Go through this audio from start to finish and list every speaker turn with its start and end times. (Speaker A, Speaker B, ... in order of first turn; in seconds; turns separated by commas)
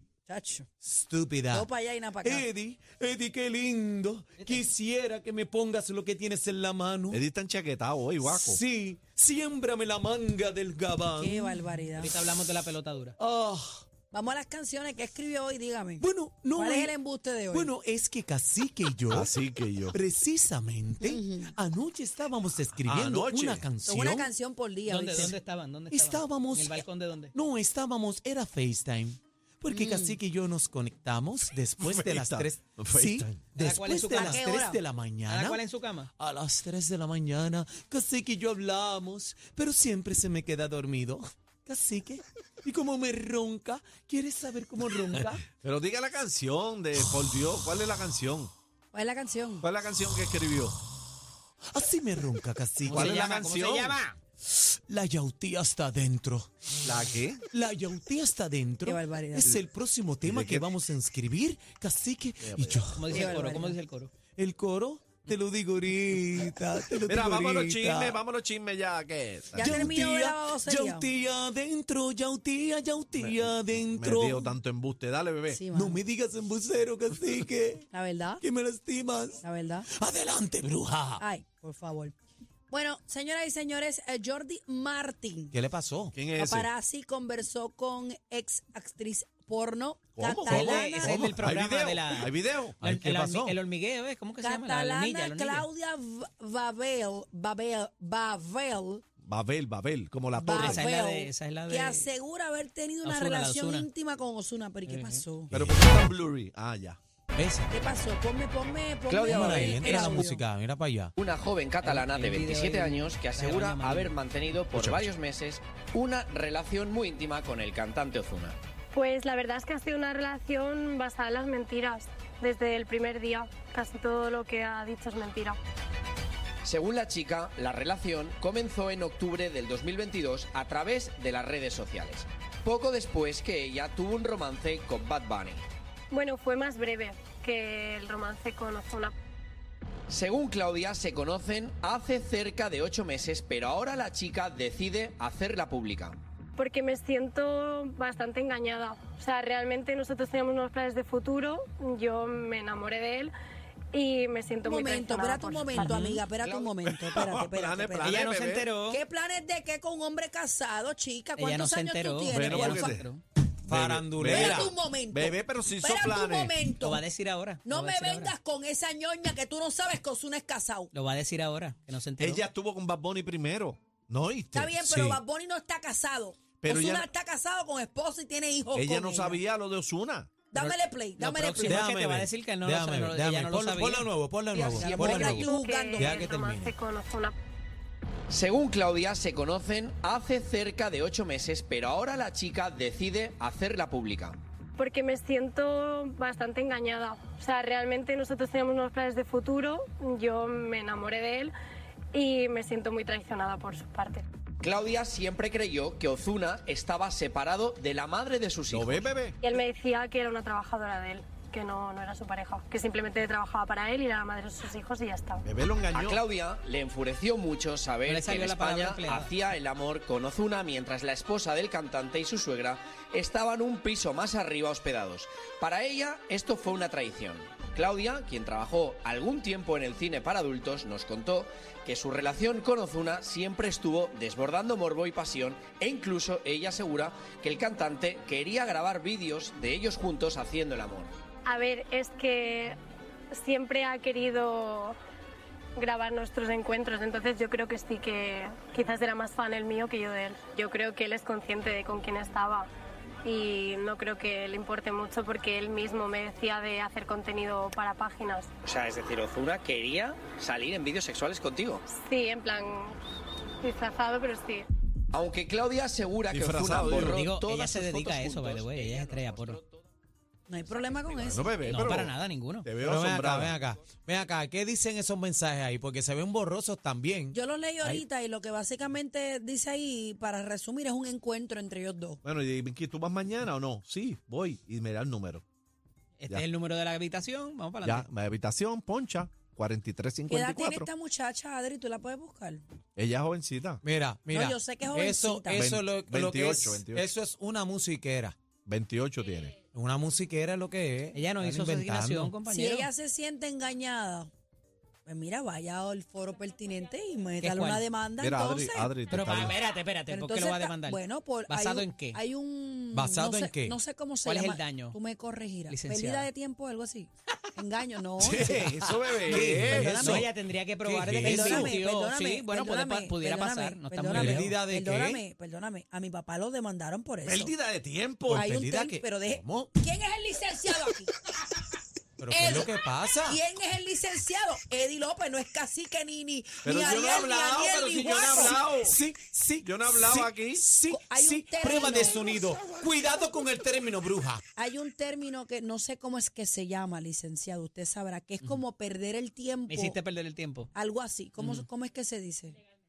Speaker A: 0.2-0.7, Speaker B: 0.8-1.7, Speaker A: 1.5-2.5, Speaker B: 2.2-7.2, Speaker C: 7.1-8.6, Speaker B: 8.2-11.6, Speaker A: 11.2-12.1, Speaker D: 12.0-13.2, Speaker B: 13.2-13.8, Speaker A: 14.1-17.7, Speaker B: 16.0-16.9, Speaker B: 17.5-19.3, Speaker C: 19.1-19.9, Speaker B: 19.9-24.3, Speaker A: 21.0-21.5, Speaker C: 22.7-23.6, Speaker A: 23.8-25.4, Speaker D: 24.8-27.3, Speaker B: 25.9-35.6, Speaker A: 29.7-30.2, Speaker C: 31.8-33.6, Speaker D: 33.6-34.5, Speaker A: 34.1-34.8, Speaker D: 35.2-36.1, Speaker B: 36.2-45.5, Speaker C: 45.6-48.5, Speaker A: 48.9-49.7, Speaker C: 49.6-50.7, Speaker B: 51.7-53.1, Speaker D: 52.8-54.2, Speaker C: 52.9-54.0, Speaker B: 54.5-56.5, Speaker C: 56.8-57.4, Speaker B: 57.5-63.2, Speaker A: 58.9-59.6, Speaker C: 60.2-60.7, Speaker C: 62.4-63.3, Speaker D: 62.9-64.1, Speaker A: 63.1-63.8, Speaker B: 64.3-68.2, Speaker C: 67.1-69.9, Speaker A: 69.5-71.1, Speaker B: 69.5-74.5, Speaker C: 73.2-75.6, Speaker A: 75.5-76.0, Speaker B: 75.7-77.9, Speaker A: 77.9-78.4, Speaker B: 78.4-81.2, Speaker A: 79.4-79.9, Speaker A: 81.2-82.2, Speaker A: 82.7-85.6, Speaker B: 85.5-86.1, Speaker C: 86.1-86.7, Speaker A: 86.4-91.2, Speaker C: 90.2-92.8, Speaker D: 90.5-92.3, Speaker B: 90.5-91.4, Speaker B: 92.8-93.6, Speaker D: 92.8-95.7, Speaker A: 94.4-99.0, Speaker C: 99.2-100.8, Speaker A: 100.3-105.5, Speaker D: 100.6-102.1, Speaker D: 103.0-103.9, Speaker D: 104.8-105.2, Speaker B: 105.5-106.0, Speaker C: 105.5-107.0, Speaker B: 107.3-107.7, Speaker A: 107.7-110.4, Speaker E: 109.1-110.2, Speaker B: 109.2-111.1, Speaker E: 111.2-118.5, Speaker D: 111.8-114.2, Speaker B: 114.7-115.1, Speaker F: 118.9-125.6, Speaker E: 126.6-135.6, Speaker F: 136.1-139.1, Speaker E: 140.1-146.2, Speaker F: 146.6-153.3, Speaker F: 153.9-155.7, Speaker A: 154.6-158.2, Speaker D: 155.7-156.3, Speaker C: 157.1-158.7, Speaker D: 158.0-159.0, Speaker A: 158.9-163.0, Speaker D: 161.4-163.2, Speaker C: 162.3-163.1, Speaker C: 163.7-166.6, Speaker B: 163.7-164.7, Speaker A: 164.3-167.0, Speaker D: 166.8-168.3, Speaker A: 167.6-170.9, Speaker D: 170.9-172.4, Speaker C: 172.2-174.8, Speaker A: 174.5-179.4, Speaker B: 174.8-175.2, Speaker C: 176.6-177.1, Speaker C: 178.7-180.3, Speaker A: 180.5-181.9, Speaker D: 180.5-184.1, Speaker B: 181.6-186.7, Speaker F: 184.7-187.3, Speaker A: 184.8-186.2, Speaker E: 188.3-194.4, Speaker F: 194.8-201.5, Speaker F: 202.1-204.2, Speaker E: 204.6-209.1, Speaker C: 208.7-209.4, Speaker F: 209.4-215.4, Speaker C: 215.4-216.2, Speaker E: 215.9-241.1, Speaker D: 218.0-219.3, Speaker F: 241.4-242.8, Speaker F: 243.3-245.0, Speaker F: 245.8-252.7, Speaker F: 253.2-258.5, Speaker E: 258.6-261.8, Speaker F: 261.9-263.0, Speaker F: 263.6-264.6, Speaker E: 265.1-269.8, Speaker C: 266.3-267.2, Speaker D: 267.0-269.6, Speaker A: 270.5-271.6, Speaker C: 271.1-273.6, Speaker D: 271.6-272.7, Speaker B: 272.8-278.0, Speaker A: 277.3-282.2, Speaker C: 282.2-285.4, Speaker D: 286.2-288.1, Speaker C: 287.8-290.9, Speaker A: 290.3-292.6, Speaker C: 292.9-293.8, Speaker B: 293.8-298.4, Speaker A: 294.3-295.7, Speaker C: 295.5-297.0, Speaker C: 298.6-299.6, Speaker B: 299.6-302.4, Speaker D: 301.1-302.9, Speaker A: 302.4-304.3, Speaker A: 305.1-309.1, Speaker D: 307.4-307.8, Speaker C: 308.2-309.6, Speaker D: 309.1-312.2, Speaker A: 310.1-318.8, Speaker B: 312.9-313.8, Speaker D: 314.2-314.9, Speaker D: 315.7-316.3, Speaker C: 318.2-320.3, Speaker B: 318.9-321.8, Speaker D: 319.3-324.6, Speaker A: 321.2-327.5, Speaker B: 324.0-325.2, Speaker C: 327.2-328.5, Speaker B: 328.3-329.7, Speaker A: 328.3-331.1, Speaker B: 332.2-333.4, Speaker A: 332.3-332.7, Speaker A: 333.2-338.6, Speaker C: 336.6-339.0, Speaker B: 338.1-344.4, Speaker C: 339.6-340.6, Speaker A: 340.9-342.2, Speaker A: 344.6-350.0, Speaker D: 349.7-350.7, Speaker A: 350.7-352.6, Speaker D: 351.4-351.7